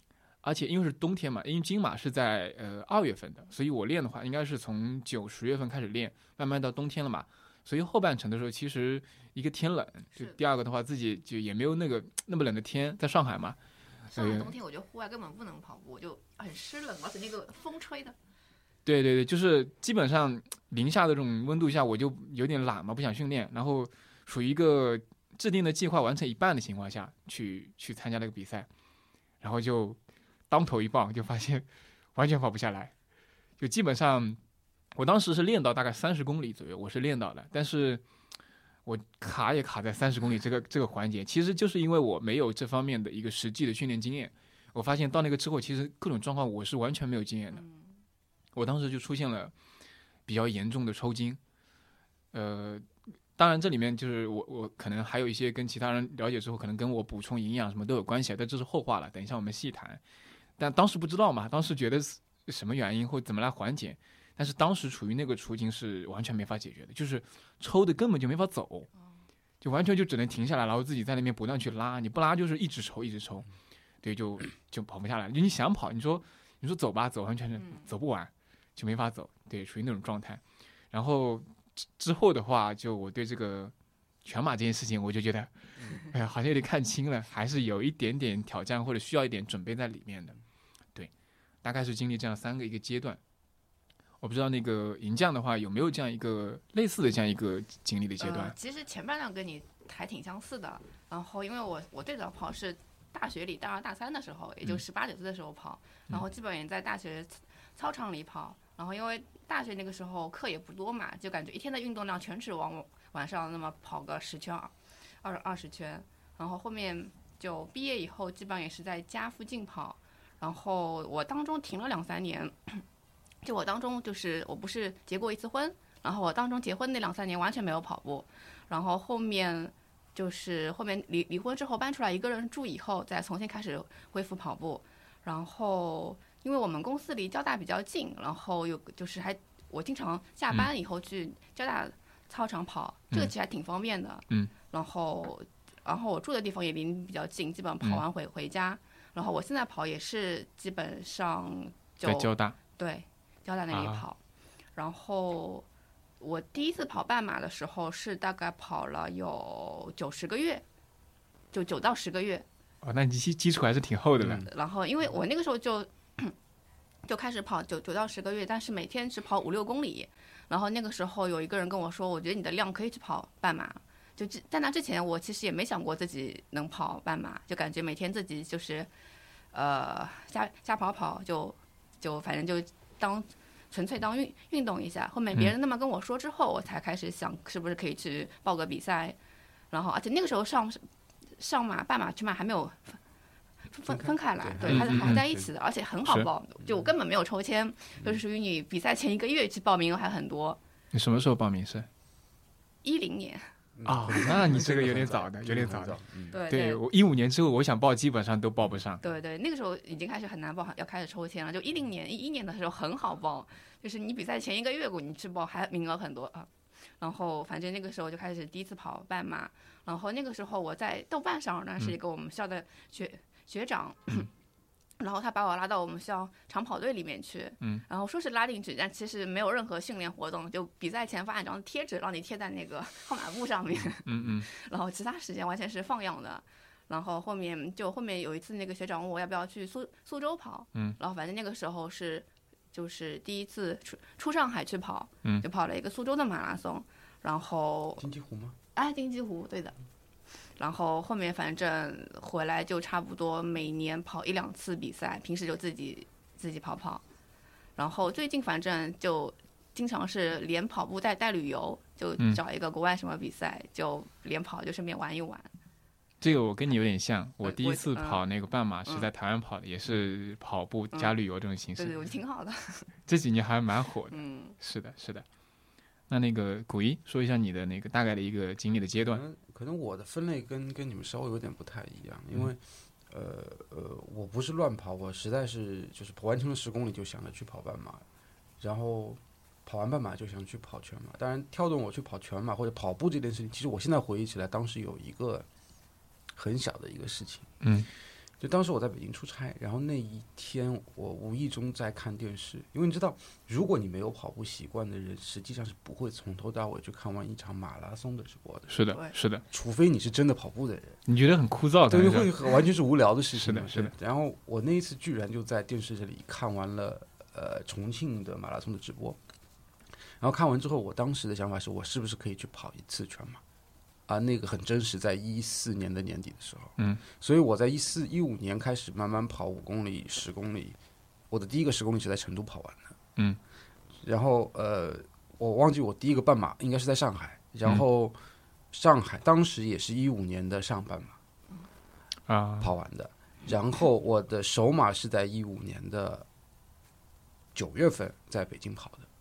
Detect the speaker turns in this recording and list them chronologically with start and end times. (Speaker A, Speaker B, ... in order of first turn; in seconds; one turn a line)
Speaker A: 0.4-13.6
Speaker A: 14.1-14.5
Speaker B: 14.2-18.1
Speaker A: 18.9-28.7
Speaker A: 29.4-30.0
Speaker A: 30.5-32.9
Speaker A: 33.6-34.4
Speaker A: 34.9-38.0
Speaker A: 38.9-47.6
Speaker B: 47.5-48.0
Speaker A: 48.5-49.5
Speaker A: 50.3-51.4
Speaker A: 52.3-60.0
Speaker A: 60.6-68.9
Speaker A: 69.6-73.5
Speaker A: 74.0-80.4
Speaker B: 77.6-77.9
Speaker A: 80.9-83.7
Speaker A: 84.2-90.4
Speaker A: 91.6-93.2
Speaker A: 94.2-98.5
Speaker B: 98.2-122.8
Speaker B: 123.4-154.2
Speaker A: 152.0-152.6
Speaker A: 153.7-154.0
Speaker B: 154.8-155.7
Speaker B: 156.2-160.6
Speaker B: 161.5-162.4
Speaker A: 162.8-164.5
Speaker B: 164.4-166.3
Speaker B: 167.1-178.9
Speaker B: 179.5-189.2
Speaker B: 189.7-190.8
Speaker B: 191.4-193.0
Speaker B: 193.7-200.6
Speaker C: 193.9-195.3
Speaker A: 194.7-195.3
Speaker A: 196.1-196.3
Speaker A: 200.9-201.9
Speaker B: 202.8-203.4
Speaker C: 203.8-206.4
Speaker A: 203.9-206.0
Speaker B: 204.1-204.5
Speaker B: 206.3-206.8
Speaker A: 206.5-209.0
Speaker B: 209.0-224.3
Speaker B: 225.0-248.1
Speaker A: 234.1-234.5
Speaker C: 248.0-248.6
Speaker B: 248.8-249.8
Speaker B: 250.6-257.0
Speaker B: 257.8-265.5
Speaker A: 266.2-272.1
Speaker B: 267.4-268.2
Speaker B: 271.8-272.9
Speaker A: 273.1-275.2
Speaker B: 274.1-274.6
Speaker A: 276.1-279.2
Speaker C: 279.1-288.1
Speaker C: 288.6-295.5
Speaker C: 296.4-297.5
Speaker A: 297.6-297.9
Speaker C: 298.4-308.8
Speaker A: 308.7-309.4
Speaker B: 308.9-309.1
Speaker C: 309.5-311.0
Speaker A: 311.1-312.4
Speaker C: 311.9-319.2
Speaker A: 313.4-313.9
Speaker C: 320.2-323.4
Speaker C: 324.1-330.8
Speaker C: 331.3-333.0
Speaker C: 334.0-338.2
Speaker C: 338.7-341.2
Speaker A: 342.3-342.7
Speaker C: 342.6-346.3
Speaker C: 347.6-349.1